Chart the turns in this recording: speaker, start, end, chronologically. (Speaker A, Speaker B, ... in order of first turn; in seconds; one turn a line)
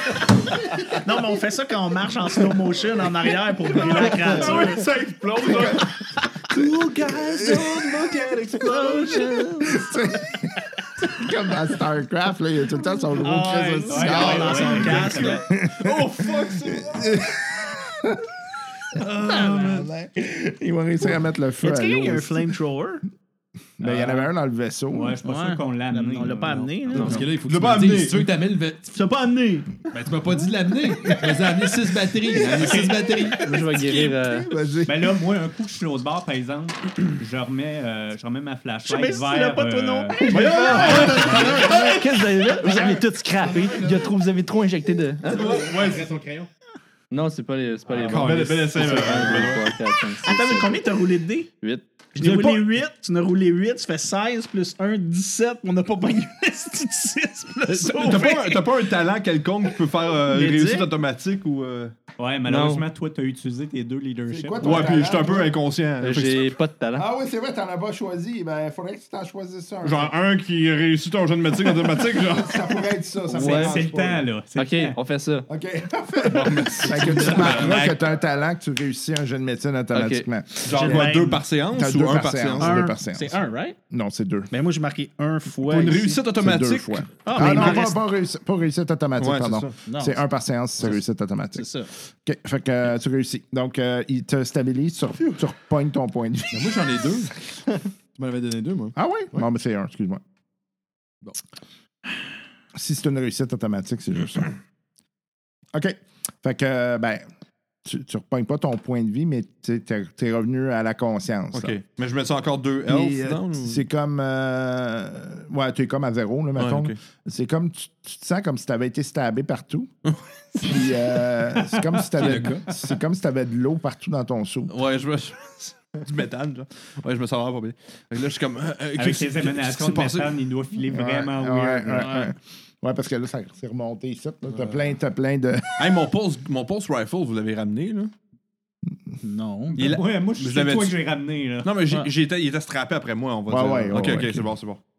Speaker A: 1.0-4.8
Speaker B: 4.1-5.8
Speaker C: 5.5-5.8
Speaker B: 6.5-9.2
Speaker D: 6.6-8.0
Speaker C: 7.2-7.8
Speaker D: 8.7-9.2
Speaker E: 8.8-9.7
Speaker C: 9.6-18.3
Speaker A: 13.2-15.4
Speaker E: 13.6-13.9
Speaker F: 13.9-15.4
Speaker B: 14.0-17.2
Speaker B: 18.9-19.9
Speaker C: 19.0-22.5
Speaker A: 21.6-23.0
Speaker C: 23.8-25.2
Speaker A: 23.8-24.3
Speaker F: 24.9-26.9
Speaker A: 25.2-27.3
Speaker E: 26.9-27.2
Speaker D: 26.9-29.0
Speaker B: 27.4-28.3
Speaker A: 28.9-29.7
Speaker D: 29.9-34.1
Speaker C: 31.0-31.6
Speaker F: 32.6-33.0
Speaker E: 32.7-34.5
Speaker C: 34.2-35.1
Speaker F: 34.8-41.8
Speaker A: 38.8-41.6
Speaker E: 40.2-45.7
Speaker B: 40.3-42.0
Speaker D: 43.5-43.9
Speaker B: 45.3-46.1
Speaker D: 45.4-46.5
Speaker E: 47.1-50.8
Speaker B: 47.9-49.7
Speaker D: 48.8-49.3
Speaker A: 50.2-51.5
Speaker E: 51.6-51.9
Speaker A: 52.1-58.8
Speaker B: 52.2-52.6
Speaker B: 57.7-61.9
Speaker A: 60.2-60.9
Speaker F: 62.2-64.9
Speaker E: 62.5-62.9
Speaker C: 64.3-65.5
Speaker B: 64.6-66.5
Speaker E: 66.0-67.0
Speaker C: 67.0-70.1
Speaker B: 69.8-72.8
Speaker C: 71.8-74.2
Speaker E: 73.3-73.8
Speaker F: 73.3-75.0
Speaker E: 74.5-75.5
Speaker C: 75.5-81.1
Speaker B: 76.2-78.0
Speaker D: 76.9-77.7
Speaker E: 79.9-80.3
Speaker B: 80.7-82.8
Speaker A: 80.7-81.4
Speaker C: 81.7-83.4
Speaker A: 82.6-83.8
Speaker C: 83.9-84.5
Speaker A: 84.5-86.2
Speaker B: 85.6-87.8
Speaker C: 86.3-96.8
Speaker A: 87.2-88.0
Speaker B: 89.2-89.7
Speaker A: 89.8-90.2
Speaker A: 91.5-91.9
Speaker D: 96.5-97.5
Speaker D: 98.1-99.5
Speaker C: 98.9-100.2
Speaker C: 102.7-104.6
Speaker C: 105.7-107.2
Speaker C: 107.8-111.8
Speaker B: 111.5-113.8
Speaker C: 112.9-119.9
Speaker B: 116.5-117.0
Speaker C: 120.5-124.7
Speaker B: 122.1-122.6
Speaker D: 122.3-122.6
Speaker B: 124.7-130.4
Speaker F: 128.9-132.2
Speaker C: 130.9-135.9
Speaker A: 132.0-132.3
Speaker B: 135.8-138.1
Speaker A: 139.2-139.8
Speaker F: 139.7-141.7
Speaker B: 139.8-141.0
Speaker B: 141.6-144.8
Speaker C: 143.5-144.5